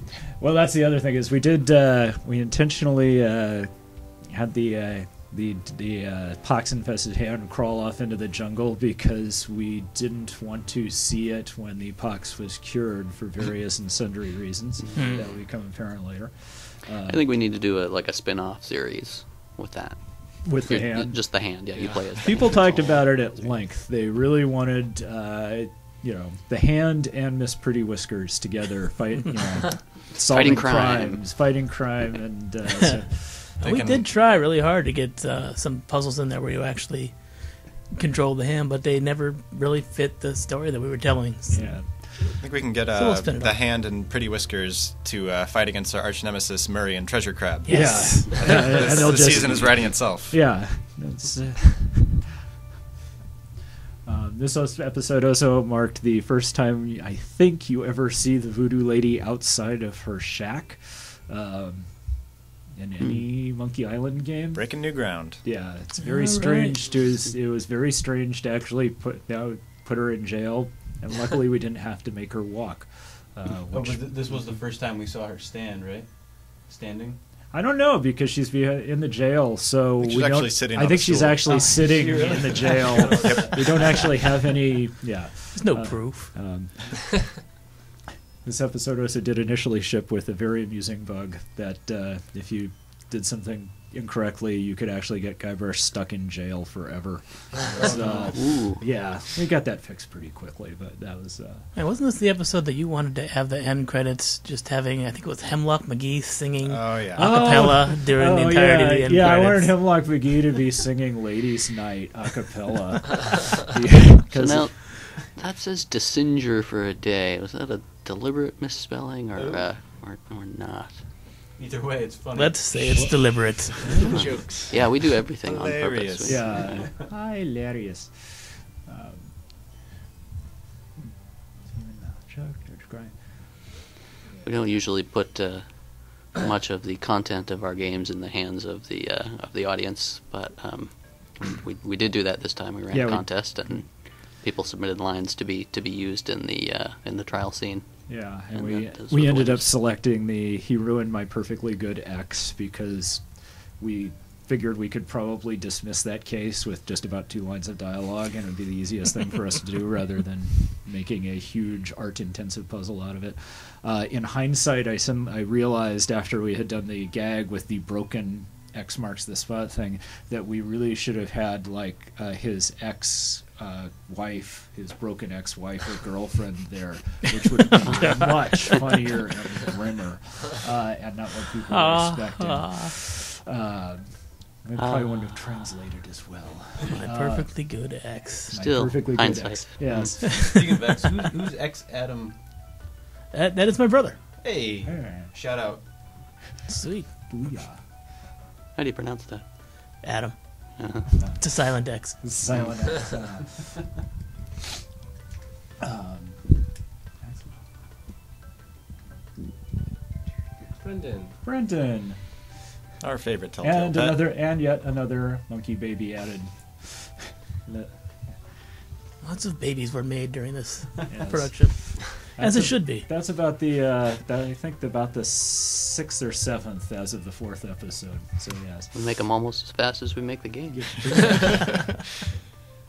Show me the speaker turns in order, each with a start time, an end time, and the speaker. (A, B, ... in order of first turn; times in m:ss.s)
0:00.3-0:17.2 A
0:14.9-0:15.3 B
0:17.1-0:23.5 C
0:20.4-0:21.6 A
0:21.7-0:22.4 D
0:22.2-0:33.6 A
0:30.3-0:31.2 C
0:33.6-0:43.6 B
0:33.6-0:34.1 E
0:41.5-0:42.4 A
0:42.2-0:50.4 E
0:47.6-0:48.7 B
0:47.7-0:52.3 A
0:54.0-1:04.9 A
1:04.5-1:05.4 E
1:05.4-1:14.6 A
1:06.0-1:06.9 B
1:13.7-1:17.2 F
1:17.5-1:27.4 A
1:20.0-1:21.7 E
1:21.5-1:24.0 F
1:23.0-1:23.6 E
1:25.6-1:26.4 B
1:28.4-1:41.7 A
1:37.7-1:38.5 F
1:38.3-1:38.8 C
1:41.7-1:49.8 B
1:46.6-1:47.8 E
1:47.2-1:55.0 A
1:54.3-2:01.1 C
1:59.3-1:59.8 F
2:01.5-2:04.1 F
2:02.3-2:04.2 B
2:02.9-2:04.0 A
2:03.9-2:04.7 D
2:04.1-2:06.7 C
2:05.4-2:06.8 E
2:06.2-2:09.4 A
2:11.6-2:13.8 A
2:14.4-2:29.7 C
2:22.9-2:23.9 A
2:28.1-3:10.4 A
2:58.0-2:58.3 B
3:01.7-3:02.9 B
3:04.8-3:05.6 C
3:06.9-3:08.6 B
3:08.5-3:10.2 C
3:10.3-3:12.4 F
3:13.3-3:14.2 B
3:14.4-3:15.9 F
3:14.8-3:15.4 A
3:16.7-3:17.1 B
3:17.3-3:17.8 A
3:18.8-3:19.5 C
3:20.0-3:22.2 B
3:20.8-3:21.1 C
3:21.2-3:24.0 A
3:25.8-3:27.6 A
3:30.8-3:31.3 D
3:31.4-3:32.5 A
3:33.0-3:34.3 E
3:33.6-3:38.5 A
3:39.2-3:43.1 B
3:41.1-3:48.9 A
3:48.9-3:51.6 C
3:50.7-3:51.8 A